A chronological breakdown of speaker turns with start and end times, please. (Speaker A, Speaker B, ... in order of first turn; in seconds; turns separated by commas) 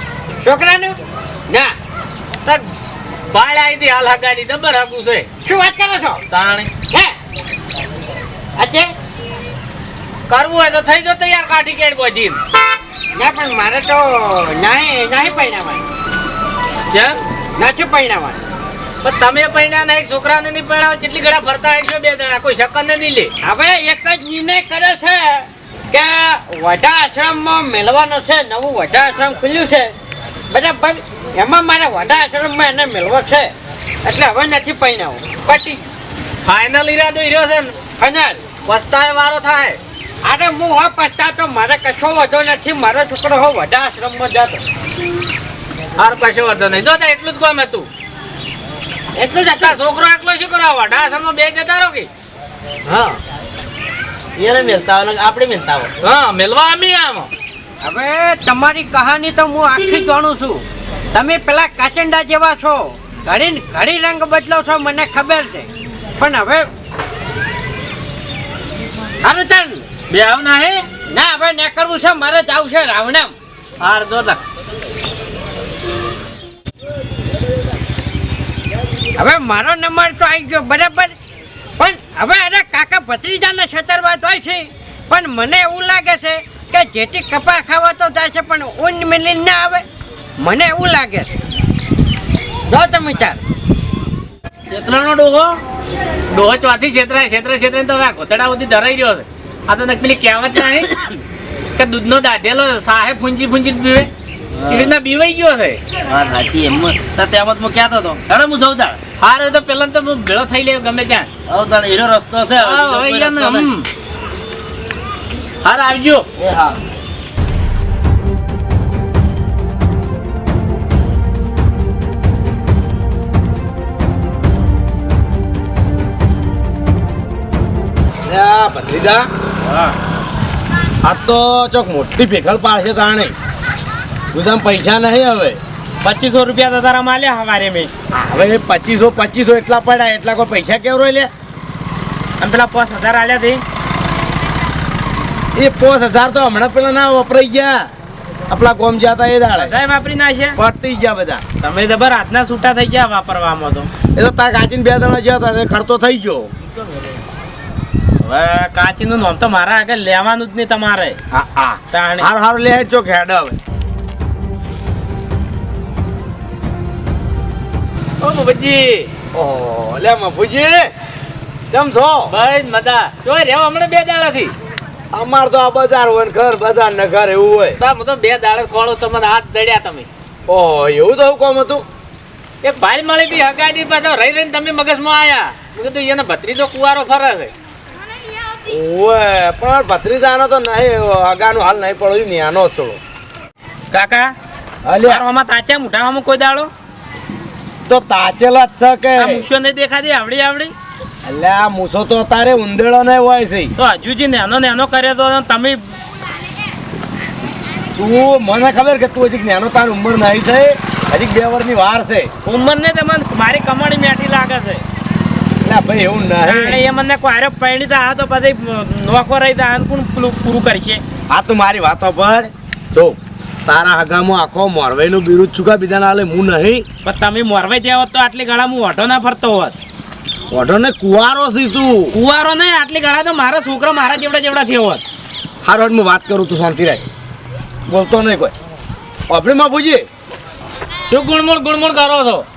Speaker A: 0.4-1.0, Speaker B: 3.3-5.3, Speaker A: 5.5-6.2, Speaker B: 6.3-6.7, Speaker A: 8.6-8.9, Speaker B: 10.3-12.4, Speaker A: 13.2-15.8, Speaker B: 16.9-17.2, Speaker A: 17.6-18.4, Speaker B: 19.0-23.3, Speaker A: 23.4-29.9, Speaker A: 30.5-33.5, Speaker A: 34.0-35.8, Speaker B: 36.5-37.7, Speaker A: 38.0-38.4, Speaker B: 38.6-39.8, Speaker A: 40.2-44.6, Speaker B: 46.0-47.9, Speaker A: 49.2-49.7, Speaker B: 49.4-52.1, Speaker C: 52.9-53.2, Speaker C: 54.4-55.9, Speaker B: 56.0-57.3, Speaker A: 57.8-66.7, Speaker A: 69.2-69.9, Speaker B: 70.1-70.8, Speaker A: 71.1-73.3, Speaker B: 73.8-74.4, Speaker A: 79.2-81.2, Speaker A: 81.8-89.8, Speaker A: 90.4-91.3, Speaker A: 92.7-93.4, Speaker B: 94.7-95.4, Speaker C: 95.0-95.4, Speaker B: 96.3-101.1, Speaker B: 101.8-104.1, Speaker C: 104.5-104.9, Speaker B: 104.7-105.8, Speaker C: 106.1-109.0, Speaker B: 109.2-111.3, Speaker C: 111.5-113.7, Speaker B: 112.6-113.9, Speaker B: 115.6-116.3, Speaker C: 116.4-116.8, Speaker D: 128.3-129.3, Speaker D: 131.0-133.3, Speaker D: 134.3-135.6, Speaker E: 136.0-137.9, Speaker D: 138.1-141.3, Speaker E: 142.4-143.6, Speaker D: 145.6-147.9, Speaker D: 148.5-149.8, Speaker E: 149.6-150.6, Speaker D: 150.6-151.4, Speaker E: 151.6-153.9, Speaker D: 154.2-156.5, Speaker E: 158.2-161.2, Speaker D: 161.3-163.6, Speaker E: 161.9-162.3, Speaker B: 168.2-169.1, Speaker D: 169.3-170.9, Speaker D: 171.7-172.3, Speaker B: 172.3-174.5, Speaker D: 175.1-177.8, Speaker B: 177.8-180.1, Speaker D: 180.5-181.8, Speaker B: 182.6-187.5, Speaker D: 188.7-193.0, Speaker E: 193.9-194.3, Speaker D: 194.8-195.2, Speaker E: 195.0-196.7, Speaker D: 197.9-199.5, Speaker E: 199.2-200.7, Speaker D: 201.2-203.7, Speaker E: 203.8-205.9, Speaker D: 207.9-212.3, Speaker E: 212.4-214.8, Speaker D: 215.6-216.8, Speaker E: 216.4-221.0, Speaker D: 221.3-226.9, Speaker E: 227.0-229.8, Speaker D: 230.5-232.2, Speaker E: 232.1-235.0, Speaker D: 235.6-237.1, Speaker D: 237.9-238.5, Speaker D: 239.3-240.1, Speaker B: 241.1-242.5